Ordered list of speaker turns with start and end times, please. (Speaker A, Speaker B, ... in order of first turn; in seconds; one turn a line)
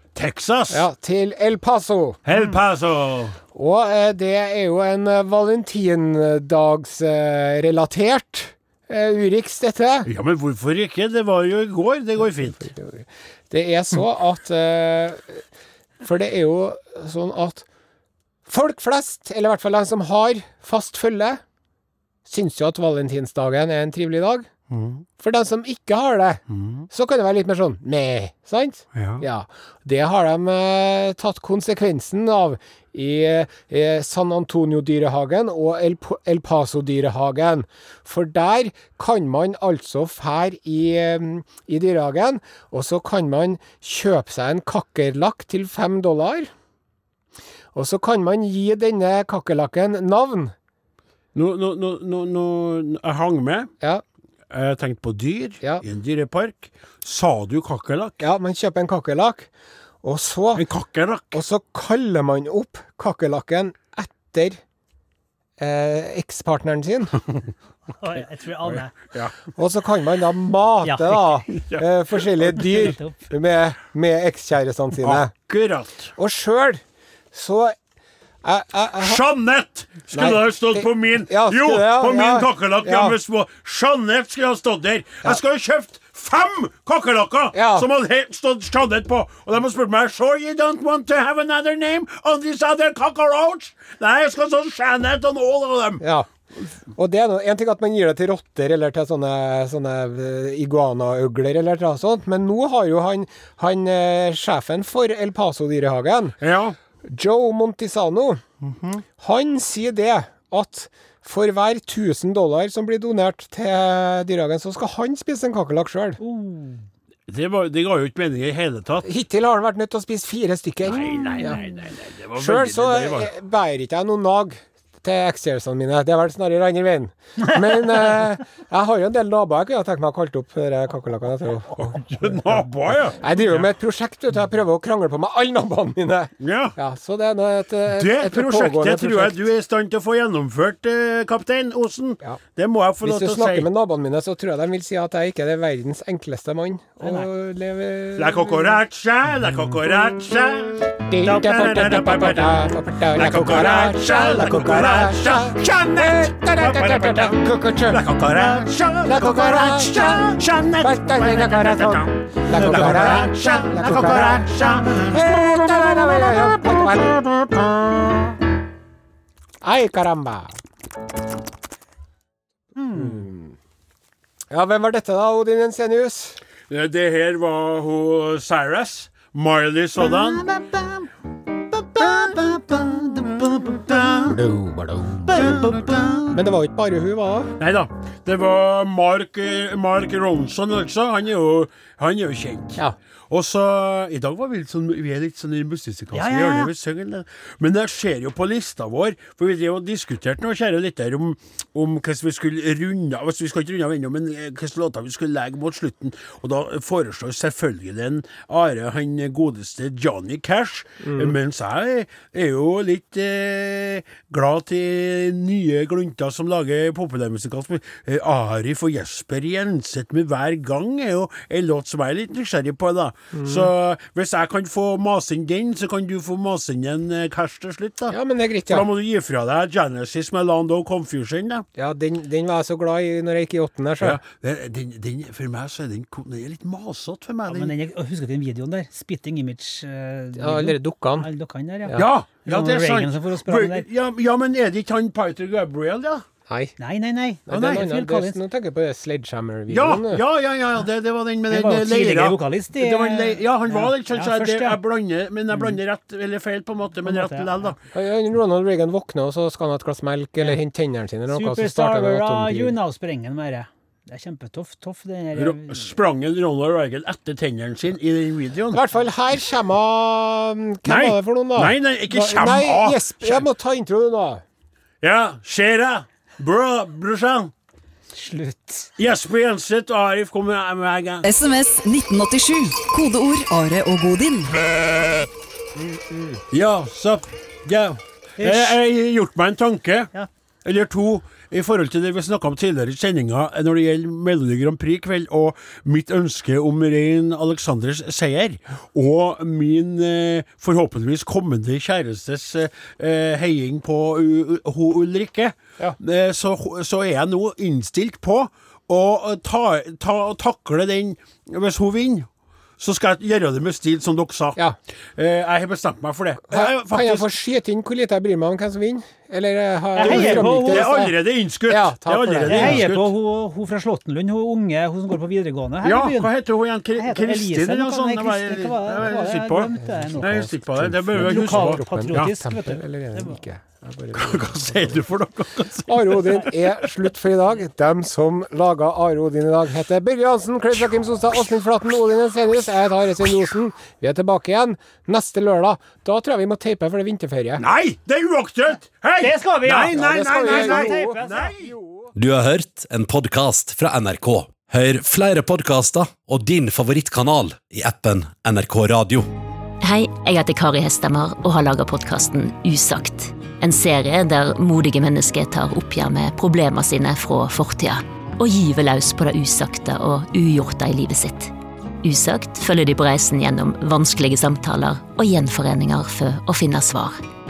Speaker A: 0.1-0.9
Speaker B: 0.7-2.2
Speaker A: 2.2-3.4
Speaker B: 3.5-10.1
Speaker A: 10.1-12.7
Speaker B: 12.5-15.4
Speaker B: 16.0-17.6
Speaker B: 18.4-21.4
Speaker B: 22.2-24.5
Speaker A: 24.7-25.0
Speaker B: 25.2-46.5
Speaker A: 26.5-26.9
Speaker A: 28.9-29.2
Speaker B: 47.7-50.5
Speaker A: 51.3-53.7
Speaker A: 54.5-58.2
Speaker B: 58.2-59.5
Speaker B: 60.0-60.6
Speaker A: 60.5-61.4
Speaker B: 61.3-64.6
Speaker B: 65.6-67.2
Speaker C: 68.0-69.1
Speaker A: 68.6-69.3
Speaker B: 69.5-75.3
Speaker C: 70.8-71.3
Speaker A: 71.5-72.9
Speaker C: 72.7-73.2
Speaker A: 75.0-76.1
Speaker B: 76.2-76.8
Speaker B: 77.3-77.7
Speaker B: 78.4-79.2
Speaker A: 79.0-96.0
Speaker B: 80.1-83.2
Speaker B: 87.5-87.9
Speaker B: 96.0-96.3
Speaker B: 96.9-106.3
Speaker A: 106.4-106.8
Speaker B: 107.1-108.4
Speaker A: 108.6-109.0
Speaker B: 109.2-116.2
Speaker C: 116.2-116.8
Speaker A: 117.3-119.1
Speaker B: 119.0-121.6
Speaker A: 120.8-123.3
Speaker C: 121.3-121.6
Speaker B: 122.4-132.4
Speaker A: 131.8-133.5
Speaker B: 133.2-139.4
Speaker A: 136.4-136.8
Speaker A: 137.9-143.7
Speaker B: 143.0-148.8
Speaker A: 148.2-168.3
Speaker B: 151.1-158.1
Speaker B: 159.0-167.2
Speaker B: 169.6-170.5
Speaker C: 172.8-173.2
Speaker B: 172.9-173.5
Speaker B: 174.5-176.4
Speaker A: 176.7-180.5
Speaker C: 180.2-180.8
Speaker A: 181.7-184.4
Speaker B: 184.3-187.5
Speaker A: 185.2-186.4
Speaker A: 187.6-228.2
Speaker C: 196.1-196.7
Speaker B: 211.0-211.3
Speaker B: 223.3-223.7
Speaker B: 228.1-228.9
Speaker A: 228.7-231.7
Speaker B: 231.8-234.2
Speaker A: 234.0-237.7
Speaker C: 237.5-243.8
Speaker B: 240.3-241.3
Speaker A: 241.9-246.2
Speaker B: 246.5-246.7
Speaker C: 246.8-248.4
Speaker B: 247.5-250.2
Speaker A: 247.5-247.8
Speaker A: 249.7-257.8
Speaker C: 251.5-254.8
Speaker C: 257.1-257.5
Speaker B: 257.9-262.8
Speaker C: 261.3-265.9
Speaker A: 265.3-268.8
Speaker B: 268.7-274.4
Speaker A: 270.8-273.5
Speaker A: 275.0-277.5
Speaker C: 278.1-278.9
Speaker A: 279.0-281.2
Speaker D: 281.2-284.6
Speaker B: 285.8-286.4
Speaker A: 286.5-290.1
Speaker C: 288.4-288.8
Speaker A: 290.6-314.6
Speaker A: 315.1-317.3
Speaker B: 316.5-321.1
Speaker C: 320.0-321.1
Speaker A: 320.0-323.1
Speaker B: 321.7-322.8
Speaker C: 322.5-326.3
Speaker A: 325.8-332.3
Speaker C: 326.9-330.5
Speaker B: 329.8-335.0
Speaker C: 331.1-333.4
Speaker A: 334.1-336.9
Speaker B: 335.9-347.6
Speaker A: 347.6-351.7
Speaker C: 349.2-351.5
Speaker B: 349.9-352.1
Speaker E: 352.1-359.3
Speaker F: 359.8-377.2